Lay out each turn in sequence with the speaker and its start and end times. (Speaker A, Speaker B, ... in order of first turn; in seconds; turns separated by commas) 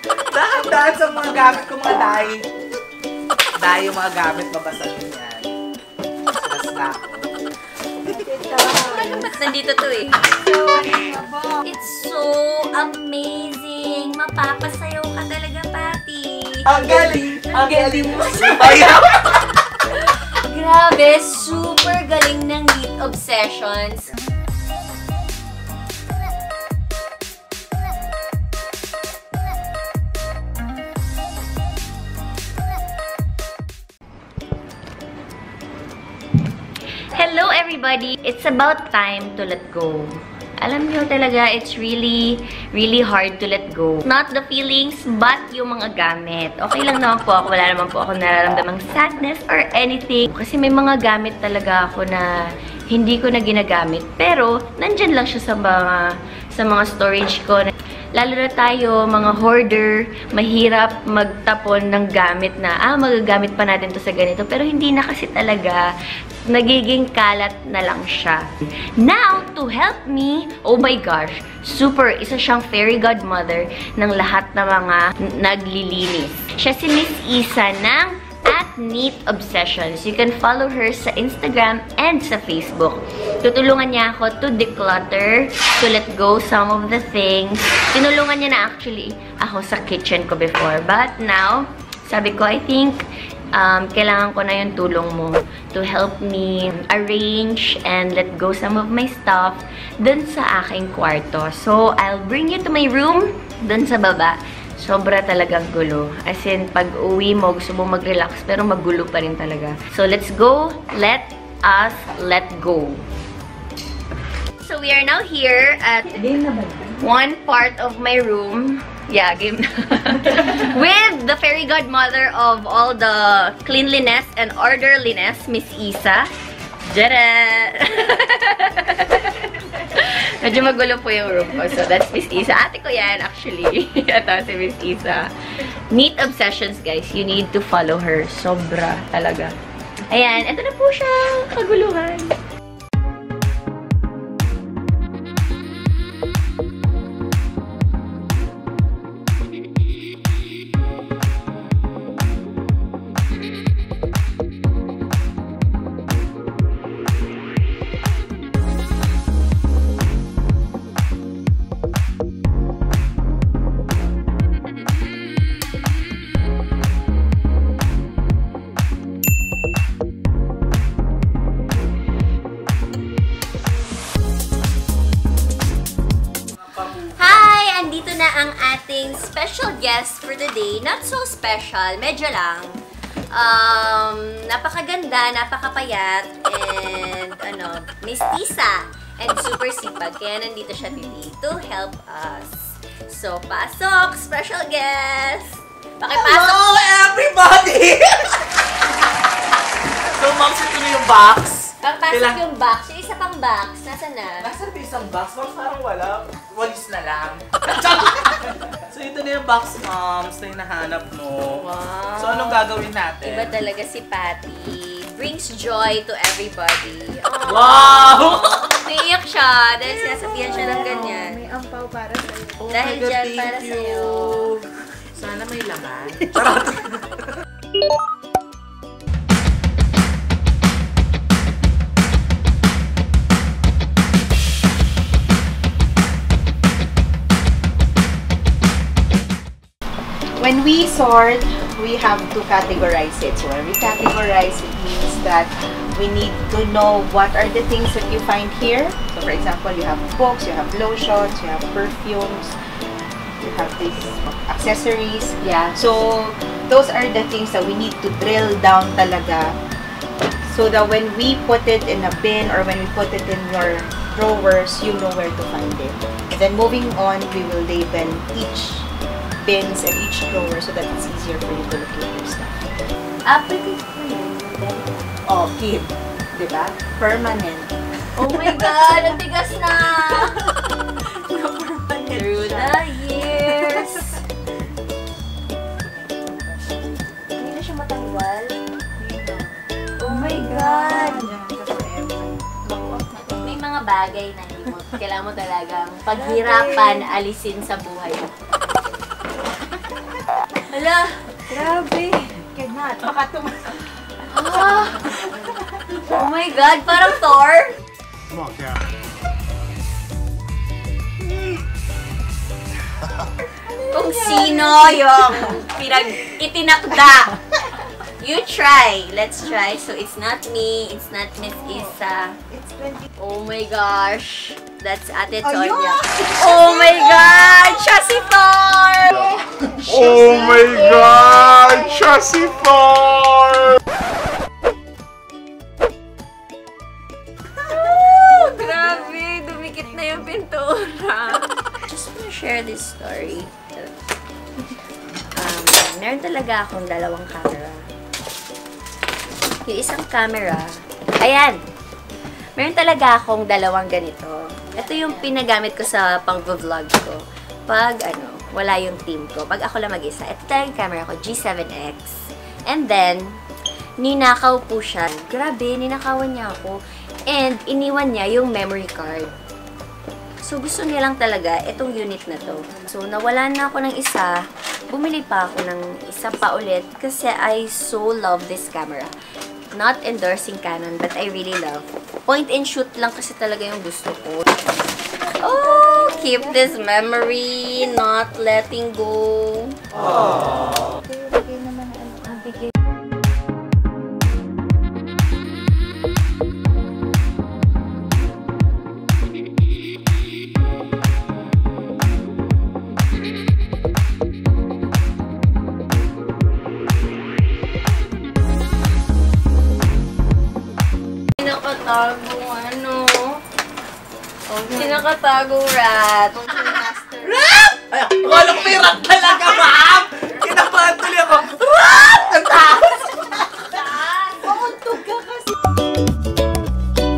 Speaker A: 0.2-2.4, Speaker A: 3.6-5.5, Speaker A: 6.3-7.3, Speaker B: 8.0-9.4, Speaker C: 8.8-10.2, Speaker B: 10.1-11.7, Speaker C: 11.6-19.1, Speaker A: 16.6-19.5, Speaker B: 16.8-17.4, Speaker C: 19.9-24.1, Speaker C: 37.1-52.3, Speaker C: 52.9-65.8, Speaker C: 66.5-68.4, Speaker C: 69.0-93.0, Speaker C: 93.5-113.0, Speaker C: 114.6-126.3, Speaker B: 116.2-116.9, Speaker C: 126.9-139.5, Speaker C: 140.1-142.3, Speaker A: 176.5-177.1, Speaker C: 177.1-182.7, Speaker C: 183.3-196.6, Speaker A: 196.1-198.5, Speaker A: 200.0-202.4, Speaker C: 201.8-204.5, Speaker A: 204.4-211.6, Speaker C: 211.6-212.6, Speaker A: 212.2-213.5, Speaker C: 213.2-221.5, Speaker A: 217.4-218.7, Speaker B: 219.8-222.7, Speaker A: 222.6-227.3, Speaker C: 222.7-224.5, Speaker B: 240.4-252.5, Speaker B: 253.4-259.5, Speaker C: 255.4-255.8, Speaker B: 260.4-268.9, Speaker B: 269.4-272.6, Speaker C: 273.2-275.2, Speaker B: 275.2-279.0, Speaker C: 278.1-280.4, Speaker B: 280.0-284.3, Speaker C: 282.1-284.2, Speaker B: 285.6-287.6, Speaker C: 287.4-288.6, Speaker B: 289.0-293.4, Speaker C: 290.0-291.4, Speaker C: 293.2-298.3, Speaker B: 296.1-297.1, Speaker C: 300.7-302.4, Speaker B: 302.5-303.8, Speaker C: 304.3-305.2, Speaker B: 304.8-306.0, Speaker C: 306.0-307.8, Speaker B: 313.5-316.3, Speaker C: 313.9-317.4, Speaker C: 318.2-322.4, Speaker B: 321.4-322.0, Speaker B: 322.5-323.1, Speaker C: 323.2-329.3, Speaker B: 325.4-327.8, Speaker B: 329.1-332.9, Speaker C: 329.8-332.6, Speaker D: 330.1-333.7, Speaker B: 337.6-339.2, Speaker C: 337.6-343.9, Speaker C: 345.3-347.8, Speaker C: 349.7-350.6, Speaker C: 351.2-351.6, Speaker C: 352.6-363.2, Speaker B: 354.7-355.3, Speaker C: 364.0-366.8, Speaker C: 367.3-369.3, Speaker C: 370.4-379.1, Speaker C: 379.7-384.8, Speaker B: 385.0-386.7, Speaker C: 385.4-389.8, Speaker B: 390.0-392.5, Speaker C: 392.3-392.7, Speaker C: 411.4-413.4, Speaker B: 414.5-415.0, Speaker C: 414.6-416.5, Speaker B: 416.3-417.4, Speaker A: 417.2-423.8, Speaker C: 423.8-424.6, Speaker B: 424.4-425.5